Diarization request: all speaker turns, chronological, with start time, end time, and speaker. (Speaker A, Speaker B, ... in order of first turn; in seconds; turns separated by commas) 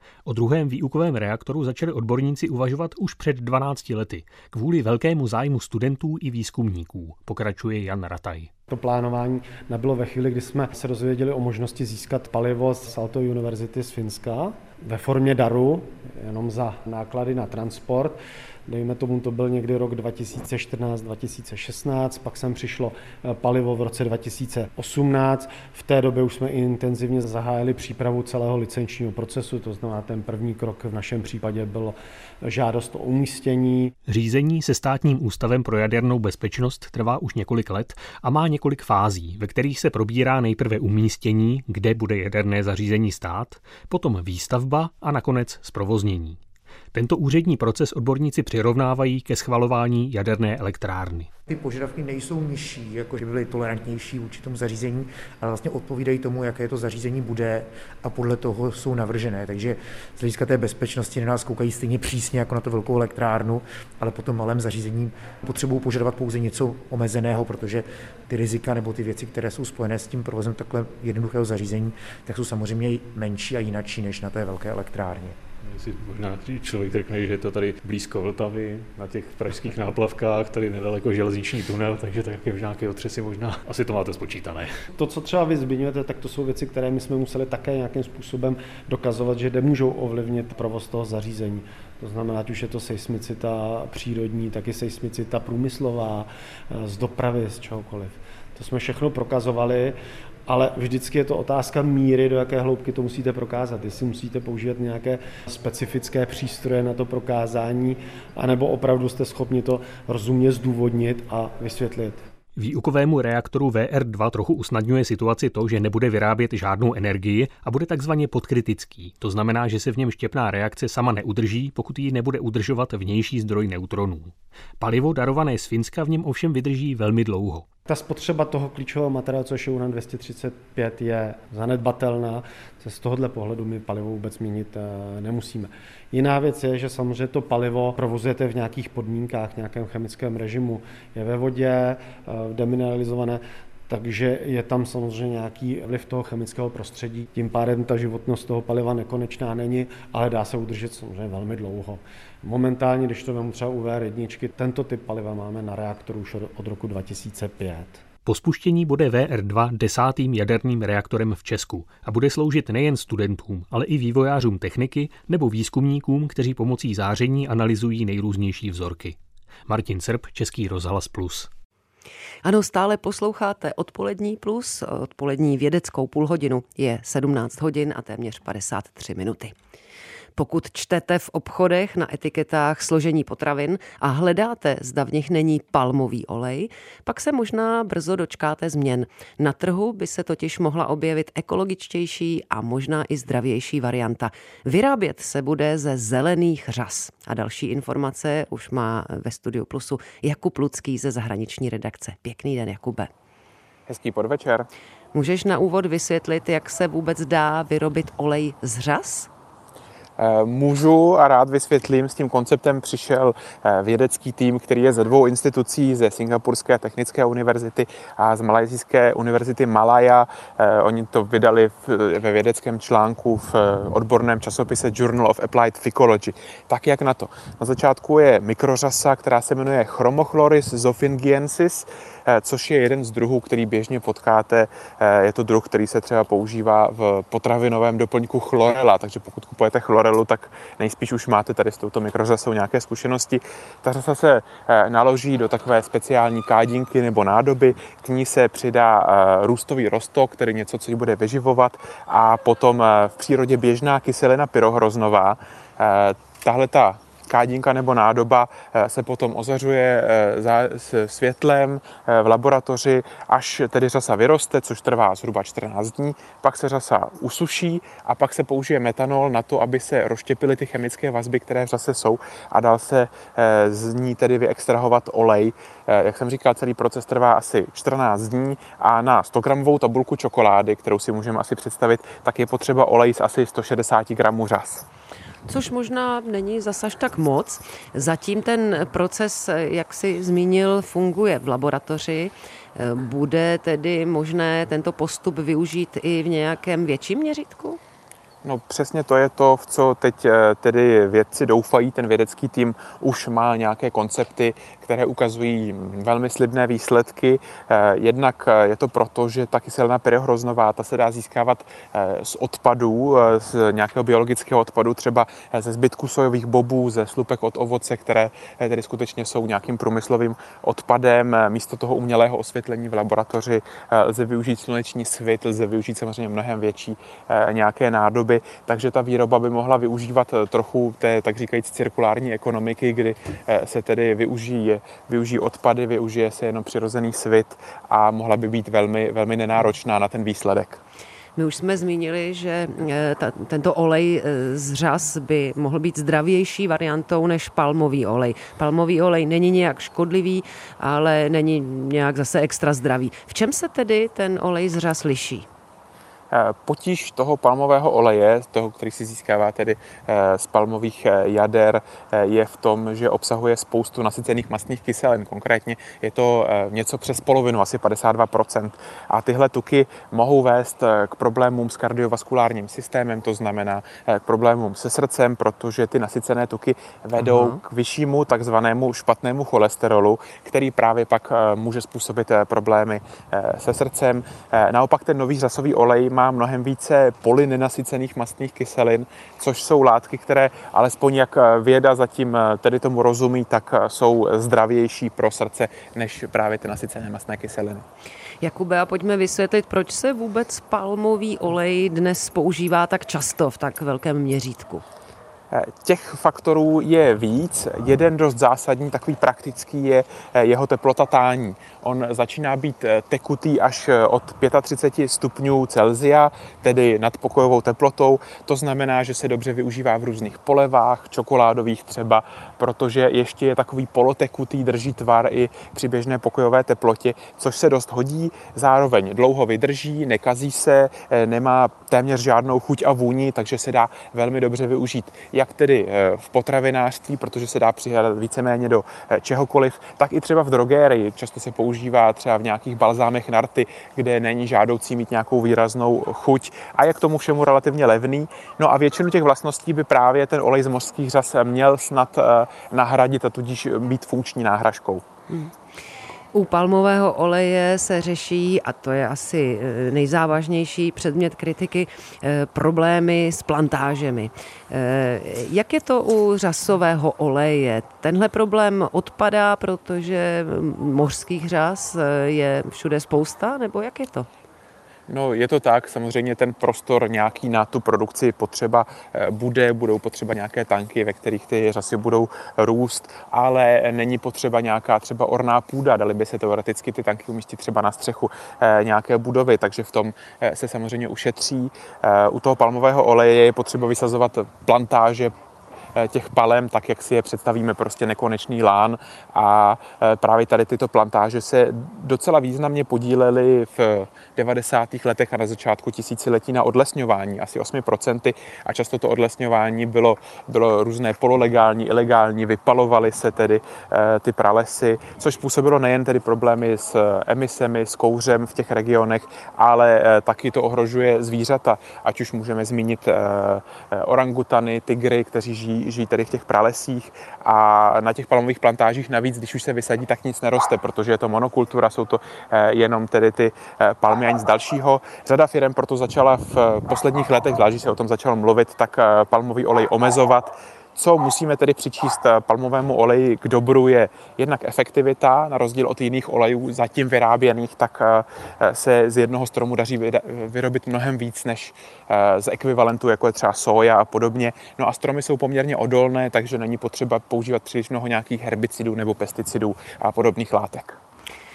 Speaker A: 0.3-8.5, Speaker B: 8.7-33.9, Speaker A: 34.1-46.4, Speaker A: 46.9-51.3, Speaker C: 51.5-75.3, Speaker D: 75.7-84.7, Speaker B: 85.0-100.0, Speaker B: 100.5-112.2, Speaker A: 112.6-127.7, Speaker B: 127.9-158.0, Speaker A: 158.3-171.5, Speaker E: 172.4-179.5, Speaker E: 180.4-203.1, Speaker F: 203.9-204.7, Speaker E: 205.1-209.3, Speaker F: 210.2-284.9, Speaker E: 285.5-297.8, Speaker F: 298.4-340.8, Speaker E: 341.4-355.5, Speaker F: 356.3-397.8, Speaker E: 377.2-377.6, Speaker E: 398.4-404.8, Speaker F: 405.5-455.0, Speaker E: 456.3-474.3, Speaker F: 475.1-495.3, Speaker F: 496.0-561.0